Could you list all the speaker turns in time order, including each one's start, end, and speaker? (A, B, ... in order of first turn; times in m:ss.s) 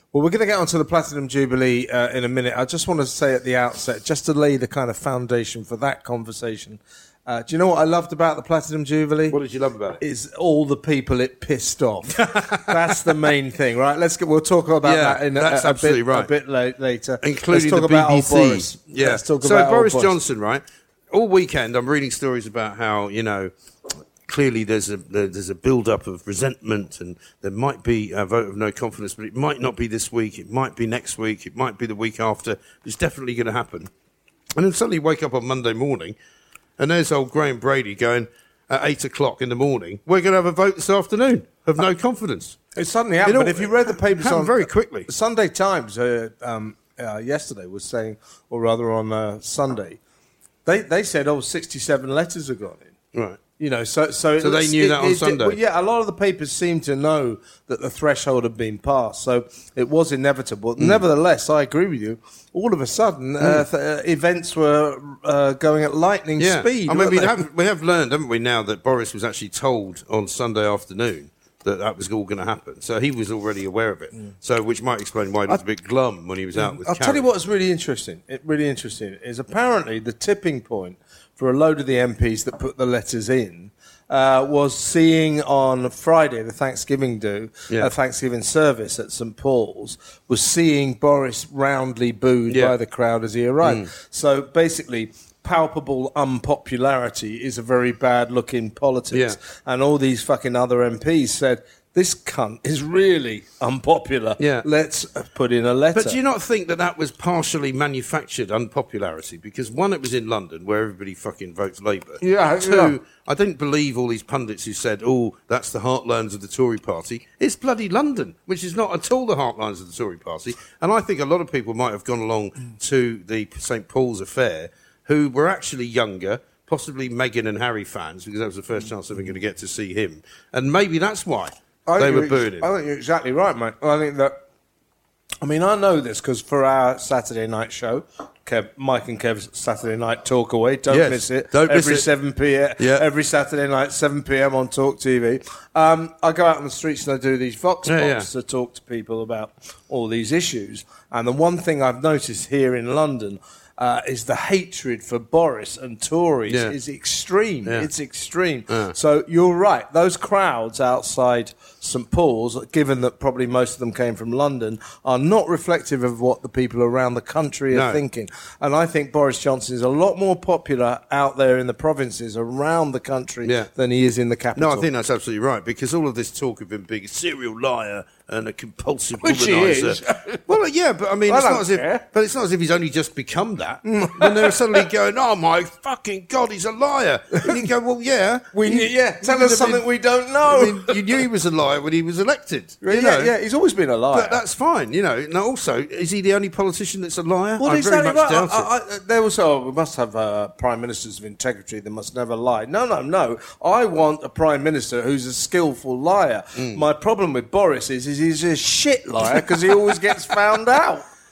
0:00.1-0:09.4 A
0:09.3-0:10.0 B
0:10.0-0:20.2 A
0:12.2-0:13.2 B
0:14.8-0:16.3 B
0:17.2-0:33.9 B
0:34.6-0:36.2 B
0:36.8-0:42.6 B
0:42.8-0:50.0 A
0:43.2-0:45.1 B
0:50.7-0:52.9 A
0:53.1-0:53.4 B
0:53.6-1:07.4 A
0:54.4-0:55.6 B
1:06.4-1:17.2 B
1:16.5-1:46.2 A
1:32.5-1:32.8 B
1:33.6-1:33.9 B
1:39.1-1:39.4 B
1:44.4-1:44.7 B
1:45.9-2:12.7 B
1:52.2-1:53.0 A
2:11.9-2:14.4 A
2:15.4-2:54.9 A
2:20.9-2:22.1 B
2:22.8-2:23.0 B
2:27.8-2:28.3 B
2:36.5-2:36.7 B
2:38.7-2:39.0 B
2:47.7-2:48.0 B
2:53.4-2:53.7 B
2:54.5-3:09.8 B
2:59.2-3:00.4 A
3:01.3-3:02.0 A
3:03.8-3:04.6 A
3:07.3-3:07.7 A
3:08.5-3:11.2 A
3:10.4-3:13.3 B
3:12.8-3:14.4 A
3:14.1-3:18.7 B
3:17.6-3:31.0 A
3:26.5-3:26.8 B